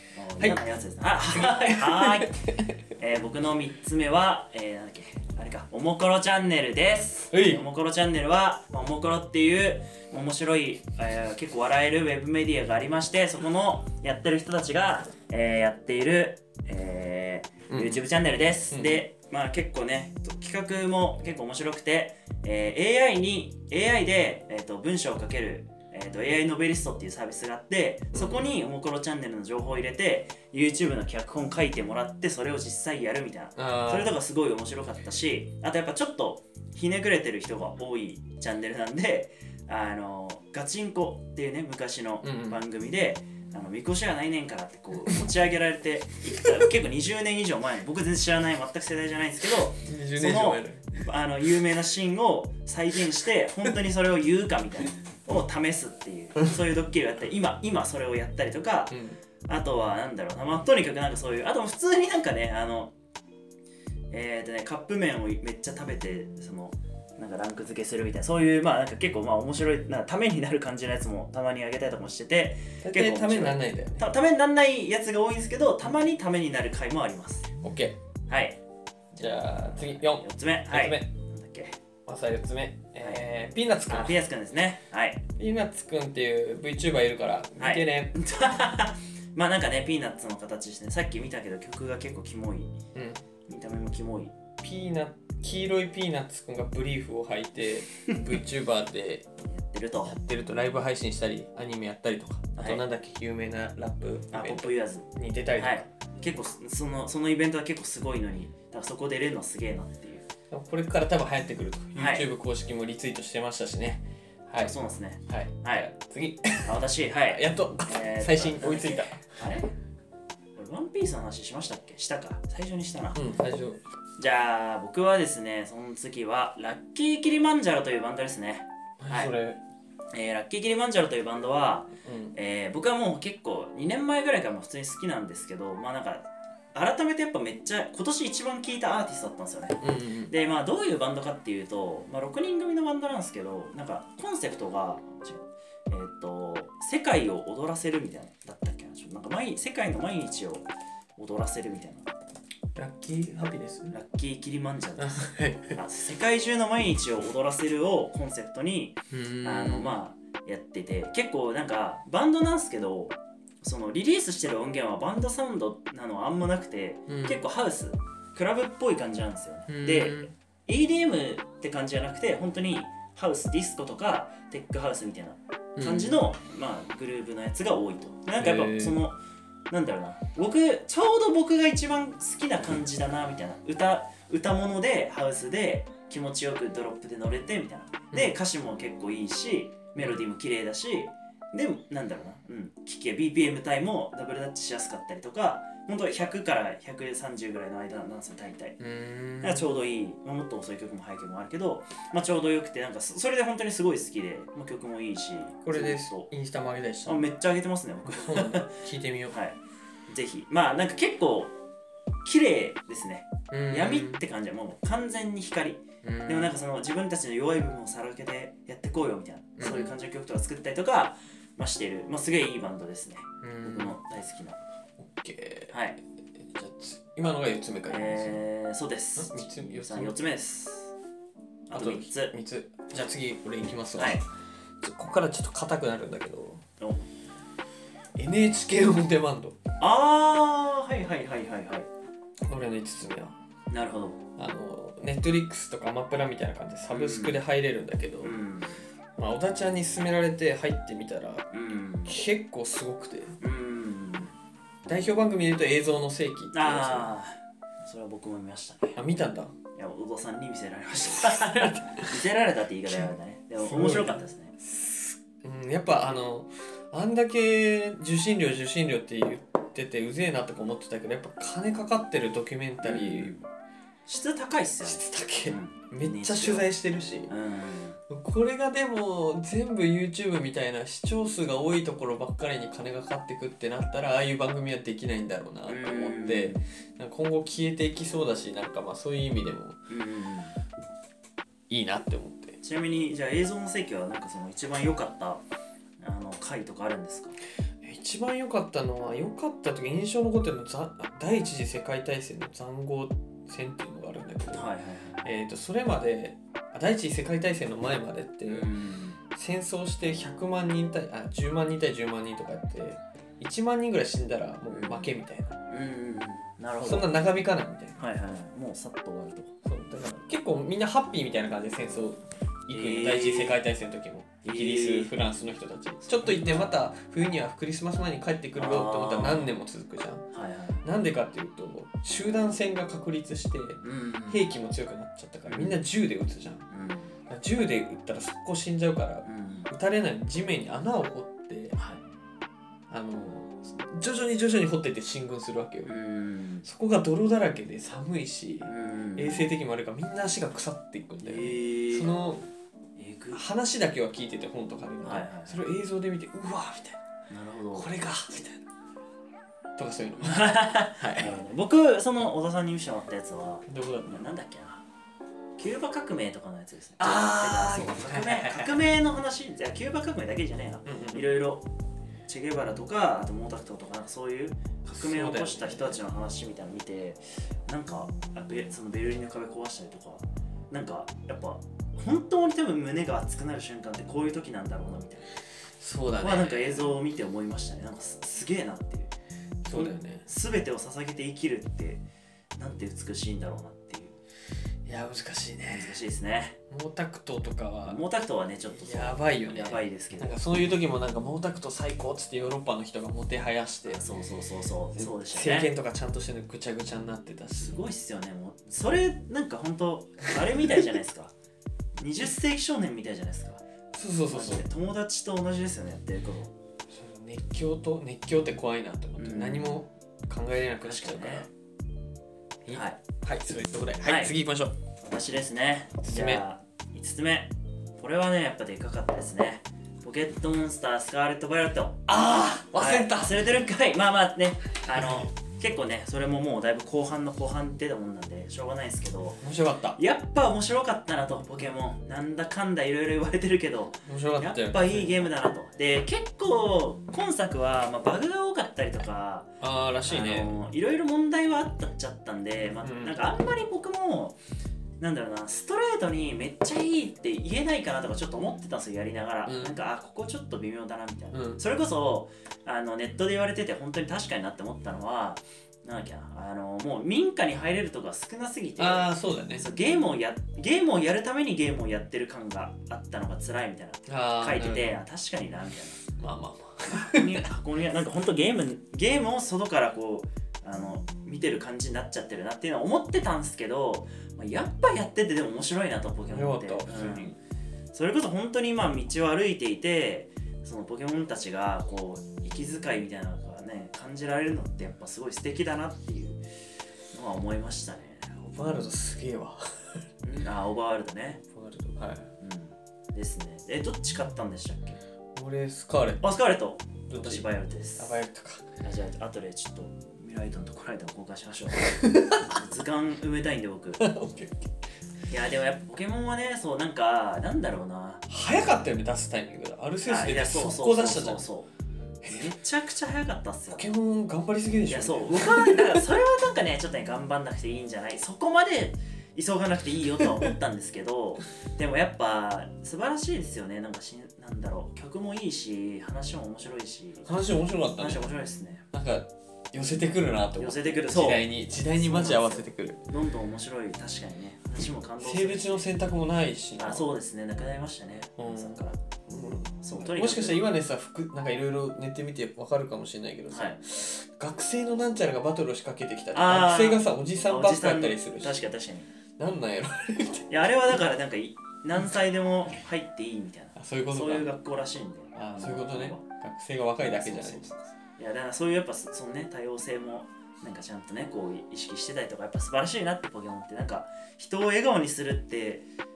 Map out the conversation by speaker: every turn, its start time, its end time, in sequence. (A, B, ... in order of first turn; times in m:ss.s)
0:00.1-0:02.3 A
0:01.3-0:02.7 B
0:03.0-1:02.9 A
0:07.3-0:07.6 B
0:17.7-0:18.0 B
0:18.7-0:19.0 B
0:28.1-0:28.5 B
0:33.6-0:34.2 B
0:42.2-0:42.6 B
0:49.8-0:51.0 B
0:58.9-0:59.2 B
1:04.1-1:17.5 A
1:12.8-1:14.1 B
1:17.6-1:18.0 B
1:18.3-1:18.6 A
1:19.1-1:21.8 A
1:19.2-1:21.1 B
1:22.0-1:24.2 B
1:23.0-1:23.2 A
1:23.9-1:25.2 A
1:25.4-1:28.2 B
1:27.6-1:32.7 A
1:32.9-1:33.2 B
1:33.5-1:34.3 A
1:34.6-1:39.2 B
1:39.5-1:40.1 A
1:40.0-1:45.8 B
1:42.6-1:42.8 A
1:44.3-1:50.2 A
1:50.5-1:54.8 B
1:51.9-1:52.3 A
1:54.6-1:55.9 A
1:55.3-1:59.5 B
1:56.6-1:59.7 A
2:00.6-2:03.2 A
2:03.1-2:03.8 B
2:04.2-2:09.3 A
2:09.0-2:09.6 B
2:10.1-2:32.1 A
2:12.0-2:12.3 B
2:19.8-2:20.3 B
2:32.7-2:33.9 B
2:33.9-2:59.2 A
2:35.0-2:35.8 B
2:39.1-2:40.0 B
2:47.1-2:47.4 B
2:49.7-2:50.3 B
2:55.8-2:56.2 B
2:58.4-2:59.0 B
2:59.7-3:18.8 A
3:18.8-3:19.7 B
3:19.4-3:26.3 A
3:25.6-3:27.2 B
3:27.0-3:28.8 A
3:28.1-3:29.3 B
3:29.3-3:31.5 A
3:32.2-3:44.6 A
3:33.5-3:34.2 B
3:36.0-3:36.5 B
3:39.6-3:39.9 B
3:43.4-3:44.0 B
3:45.0-3:45.7 B
3:45.7-3:46.0 A
3:46.3-3:48.4 B
3:47.9-3:50.9 A
3:49.2-3:50.2 B
3:51.7-3:52.3 A
3:51.7-3:54.2 B
3:53.9-3:54.2 A
3:54.8-3:56.6 B
3:58.2-3:59.6 B
3:59.8-4:01.9 A
4:02.5-4:03.3 B
4:03.7-4:04.2 A
4:04.4-4:08.4 B
4:06.9-4:07.4 A
4:08.2-4:08.8 A
4:09.2-4:11.5 B
4:11.5-4:12.2 A
4:12.0-4:13.4 B
4:13.4-4:14.3 A
4:14.9-4:17.1 B
4:16.5-4:18.9 A
4:18.9-4:19.5 B
4:19.8-4:24.5 A
4:21.0-4:22.1 B
4:23.6-4:33.4 B
4:32.8-4:33.4 A
4:34.0-4:36.7 A
4:34.8-4:37.3 B
4:37.3-4:38.0 A
4:38.1-4:49.8 B
4:45.7-4:46.6 A
4:49.9-4:50.6 A
4:51.7-4:52.6 B
4:52.6-4:55.4 A
4:56.0-4:57.4 A
4:57.8-5:04.7 B
5:04.5-5:05.2 A
5:05.2-5:08.7 B
5:08.4-5:09.2 A
5:09.3-5:15.6 B
5:14.7-5:15.2 A
5:15.7-5:17.1 A
5:16.8-5:18.0 B
5:18.0-5:19.5 A
5:19.6-5:30.2 B
5:22.7-5:23.6 A
5:24.4-5:25.1 A
5:26.0-5:26.7 A
5:28.6-5:29.5 A
5:30.3-5:30.8 A
5:30.8-5:36.6 B
5:33.8-5:34.5 A
5:35.5-5:35.8 A
5:36.7-5:37.2 A
5:37.3-5:41.8 B
5:39.2-5:39.7 A
5:41.8-5:42.0 A
5:42.9-5:45.9 B
5:45.8-5:46.6 A
5:46.6-5:52.4 B
5:48.6-5:49.5 A
5:51.2-5:52.1 A
5:53.0-5:53.4 A
5:53.3-5:57.0 B
5:55.0-5:55.6 A
5:57.3-5:57.9 A
5:57.7-5:58.6 B
5:59.8-6:01.4 B
6:00.2-6:04.8 A
6:03.6-6:04.2 B
6:05.6-6:11.6 A
6:07.0-6:08.8 B
6:10.8-6:11.2 B
6:12.3-6:25.3 A
6:14.9-6:16.0 B
6:25.8-6:27.0 B
6:26.2-6:29.1 A
6:29.6-6:30.3 B
6:29.7-6:32.0 A
6:32.6-6:34.2 A
6:34.8-6:36.0 B
6:35.7-6:36.6 A
6:36.7-6:38.0 B
6:37.8-6:40.4 A
6:38.7-6:44.0 B
6:43.8-6:45.7 A
6:44.9-6:47.8 B
6:47.5-6:51.3 A
6:52.0-6:53.6 A
6:53.9-6:54.6 B
6:54.3-6:56.5 A
6:56.9-7:01.5 B
6:59.2-6:59.8 A
7:00.8-7:01.5 A
7:02.6-7:04.8 B
7:02.7-7:03.0 A
7:04.0-7:04.3 A
7:05.0-7:12.2 A
7:06.0-7:06.4 B
7:12.1-7:13.5 B
7:12.7-7:19.4 A
7:15.0-7:15.2 B
7:19.4-7:20.0 B
7:20.0-7:29.5 A
7:24.0-7:25.3 B
7:29.6-7:30.5 B
7:30.0-7:34.4 A
7:32.8-7:33.2 B
7:35.0-7:56.1 A
7:39.4-7:39.8 B
7:41.3-7:41.6 B
7:48.8-7:49.7 B
7:54.1-7:54.9 B
7:56.2-7:57.5 B
7:56.9-8:07.3 A
8:06.3-8:07.4 B
8:07.9-8:16.4 A
8:17.1-8:18.8 A
8:18.4-8:20.0 B
8:20.2-8:21.4 A
8:21.5-8:22.3 B
8:22.4-8:25.0 A
8:25.3-8:26.3 B
8:26.2-8:28.2 A
8:27.1-8:28.6 B
8:28.8-8:34.1 A
8:31.8-8:32.5 B
8:34.0-8:34.7 B
8:35.3-8:38.2 A
8:38.3-8:41.4 B
8:40.0-8:41.7 A
8:42.2-8:42.5 B
8:42.2-8:43.9 A
8:43.7-8:46.0 B
8:44.9-8:57.3 A
8:57.2-8:58.3 B
8:58.0-8:58.8 A
8:58.9-9:03.0 B
9:00.6-9:05.9 A
9:05.2-9:07.1 B
9:06.8-9:09.0 A
9:08.4-9:18.6 B
9:09.8-9:10.6 A
9:13.5-9:13.8 A
9:16.3-9:19.1 A
9:19.4-9:20.5 B
9:20.5-9:26.2 A
9:23.8-9:24.5 B
9:25.3-9:27.6 B
9:27.0-9:35.8 A